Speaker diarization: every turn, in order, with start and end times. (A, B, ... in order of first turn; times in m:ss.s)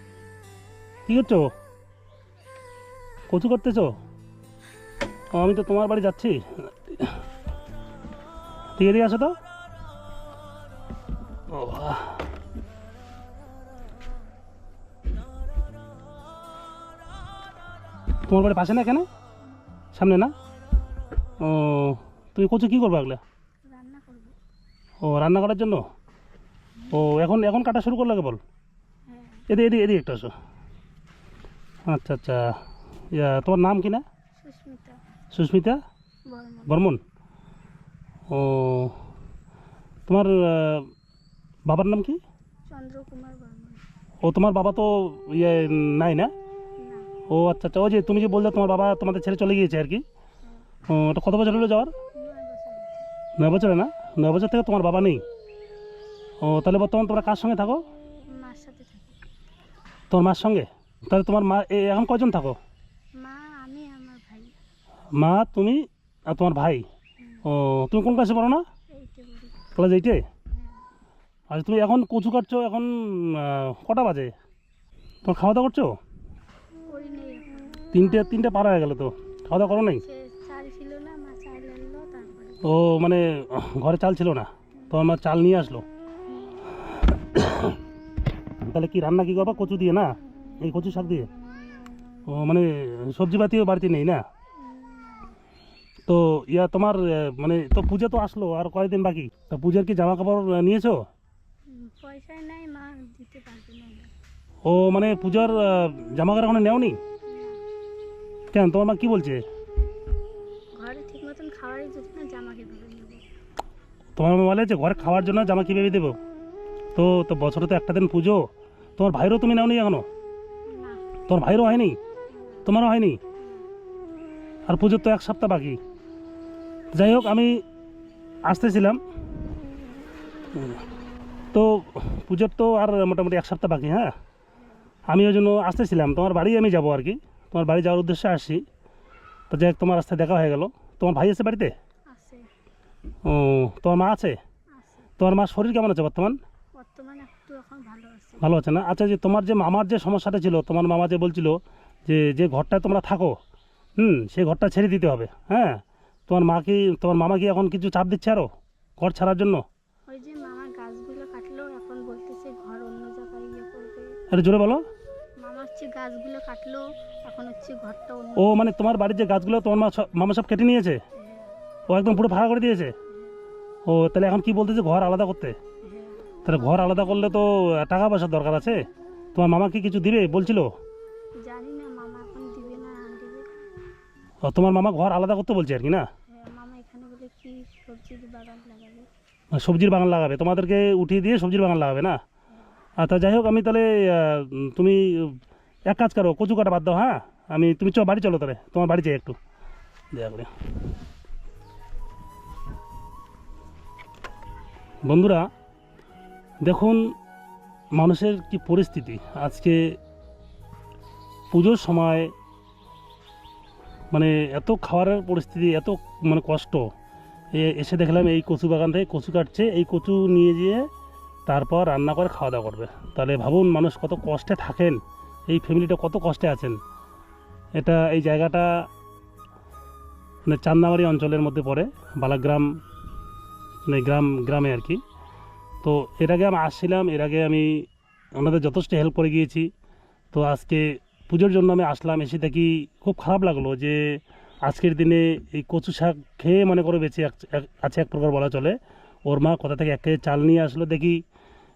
0:01.1-0:01.5 A
0:03.3-0:04.0 A
0:05.3-0:07.2 A
0:08.8-0:09.4 A
0:11.5-0:12.2 A
0:18.3-0:19.1 A
0:19.9-0:20.3 A
0:21.4-0:23.2 A
0:23.7-0:24.4 B
0:25.0-0:25.8 A
0:26.9-0:28.4 A
0:29.1-0:29.4 B
0:29.5-0:30.3 A
0:31.9-0:32.6 A
0:33.1-0:34.0 A
0:34.4-0:35.0 B
0:35.3-0:35.8 A
0:36.3-0:36.7 B
0:36.7-0:37.0 A
0:38.3-0:39.0 A
0:40.1-0:40.9 A
0:41.7-0:42.2 A
0:42.7-0:43.8 B
0:44.2-0:46.3 A
0:47.3-0:50.0 A
0:50.9-0:51.9 A
0:52.2-0:53.0 B
0:53.4-0:55.2 A
0:56.4-0:57.9 A
0:58.3-0:59.2 B
1:00.1-1:02.6 A
1:03.2-1:04.5 B
1:05.2-1:06.8 A
1:07.4-1:08.6 A
1:09.0-1:09.5 B
1:09.8-1:10.3 A
1:11.5-1:14.3 A
1:15.2-1:16.0 A
1:16.9-1:17.9 B
1:17.9-1:20.0 A
1:19.8-1:22.6 B
1:22.6-1:25.8 A
1:27.2-1:27.8 A
1:28.6-1:31.3 A
1:32.3-1:34.2 A
1:34.6-1:35.4 B
1:36.1-1:41.0 A
1:41.8-1:44.1 B
1:44.6-1:47.0 A
1:47.3-1:47.6 B
1:48.5-1:49.4 A
1:50.8-1:53.2 B
1:54.2-1:56.2 A
1:57.0-2:00.1 A
2:00.7-2:01.0 B
2:01.3-2:02.0 A
2:02.7-2:03.2 A
2:04.7-2:05.8 A
2:06.9-2:07.6 A
2:08.4-2:09.0 A
2:10.5-2:10.8 A
2:11.5-2:14.1 A
2:15.1-2:18.6 A
2:19.5-2:21.7 A
2:22.1-2:22.4 B
2:23.2-2:24.4 A
2:25.2-2:26.4 A
2:26.8-2:28.4 B
2:28.4-2:33.4 A
2:34.0-2:38.5 A
2:39.0-2:39.6 A
2:40.1-2:44.1 B
2:44.3-2:44.8 A
2:45.4-2:48.4 B
2:48.4-2:51.0 A
2:51.9-2:52.9 A
2:53.9-2:55.6 A
2:56.4-3:00.7 A
3:01.4-3:03.5 B
3:04.4-3:06.1 A
3:06.4-3:09.1 B
3:09.5-3:12.2 A
3:13.0-3:19.4 A
3:20.1-3:20.5 A
3:25.0-3:25.5 A
3:26.6-3:27.1 A
3:28.0-3:30.0 A
3:31.5-3:32.3 A
3:34.1-3:36.9 A
3:37.5-3:40.9 A
3:41.5-3:46.8 A
3:47.8-3:48.7 A
3:50.5-3:52.7 A
3:53.9-3:55.0 A
3:55.8-3:59.7 A
4:00.3-4:11.2 A